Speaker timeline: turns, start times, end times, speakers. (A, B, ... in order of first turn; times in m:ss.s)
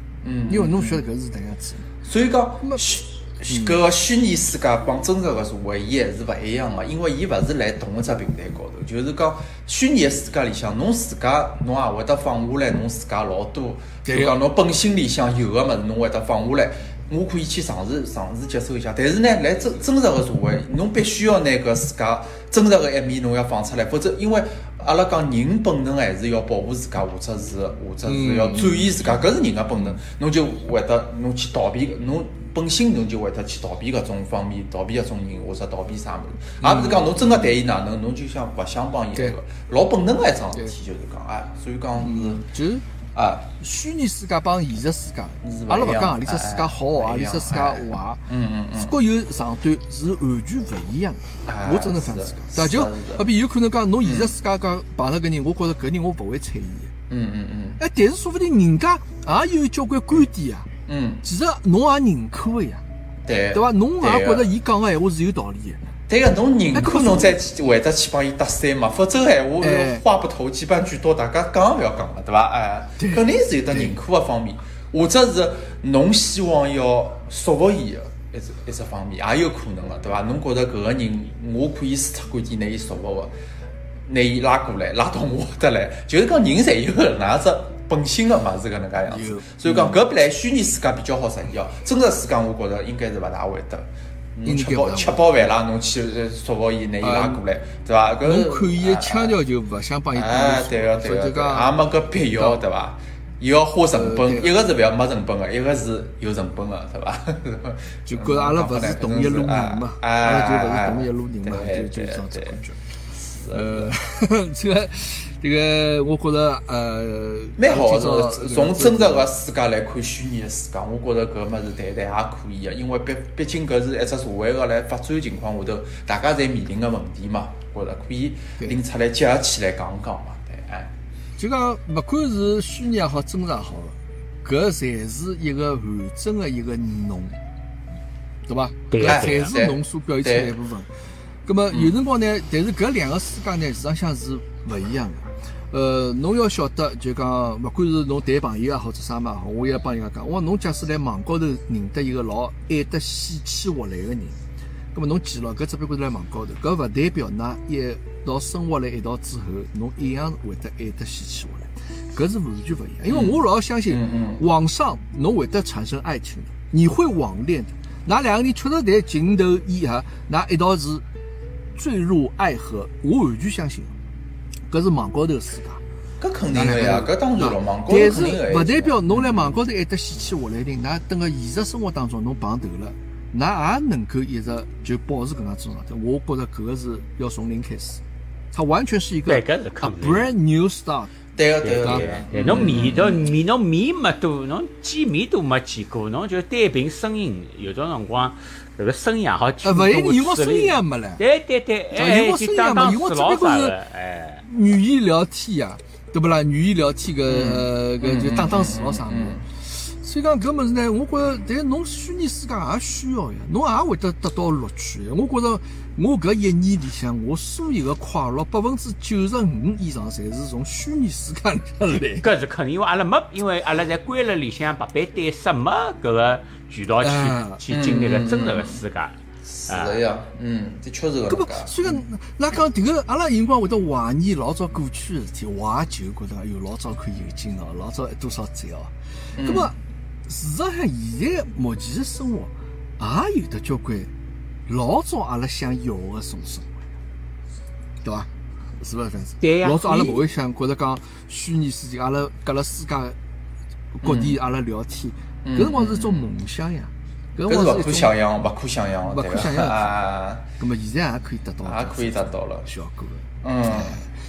0:00.2-0:01.0 A
0:00.5-0:01.9 B
0:02.0-0:42.4 A
0:03.5-0:03.8 B
0:14.0-0:14.4 B
0:28.0-0:29.0 B
0:36.6-0:37.4 B
0:42.0-0:42.8 B
0:43.2-0:43.5 A
0:43.6-0:56.9 B
0:45.4-0:49.0 A
0:51.5-0:53.3 A
0:54.0-0:54.3 A
0:57.1-0:57.8 A
0:57.8-1:00.7 B
1:00.9-1:01.2 A
1:01.2-1:02.8 B
1:03.3-1:04.5 A
1:03.5-1:05.8 B
1:06.1-1:23.3 A
1:06.7-1:07.4 B
1:09.6-1:10.0 B
1:13.0-1:14.0 B
1:24.1-1:39.4 A
1:29.1-1:30.0 B
1:34.4-1:35.2 B
1:37.0-1:37.4 B
1:38.2-1:41.7 B
1:40.1-1:53.9 A
1:43.9-1:44.5 B
1:48.1-1:52.7 B
1:53.5-1:59.3 B
1:57.6-2:10.9 A
2:11.4-2:17.4 B
2:18.5-2:20.9 B
2:18.9-2:19.5 C
2:19.0-2:20.5 A
2:21.5-2:34.4 B
2:34.9-2:51.0 B
2:43.1-2:44.4 A
2:51.8-2:54.0 B
2:54.7-2:55.8 B
2:56.2-2:59.6 A
2:56.5-3:08.0 B
3:08.5-3:11.1 B
3:09.3-3:10.3 C
3:11.4-3:13.3 A
3:11.6-3:24.4 C
3:11.8-3:12.8 B
3:19.6-3:21.2 B
3:21.9-3:23.8 B
3:24.5-3:42.3 B
3:27.3-3:29.4 A
3:42.2-3:49.2 C
3:47.0-3:47.6 B
3:47.7-3:48.8 A
3:49.5-3:52.0 A
3:49.7-3:50.0 C
3:51.3-3:59.8 B
3:59.4-3:59.7 A
4:00.3-4:04.1 B
4:04.7-4:06.9 B
4:08.0-4:08.3 B
4:08.8-4:13.2 B
4:09.4-4:10.2 C
4:14.0-4:18.2 B
4:14.0-4:14.4 A
4:15.4-4:16.3 A
4:17.4-4:20.5 A
4:19.1-4:20.0 B
4:20.6-4:23.3 B
4:21.6-4:22.7 A
4:23.4-4:24.0 A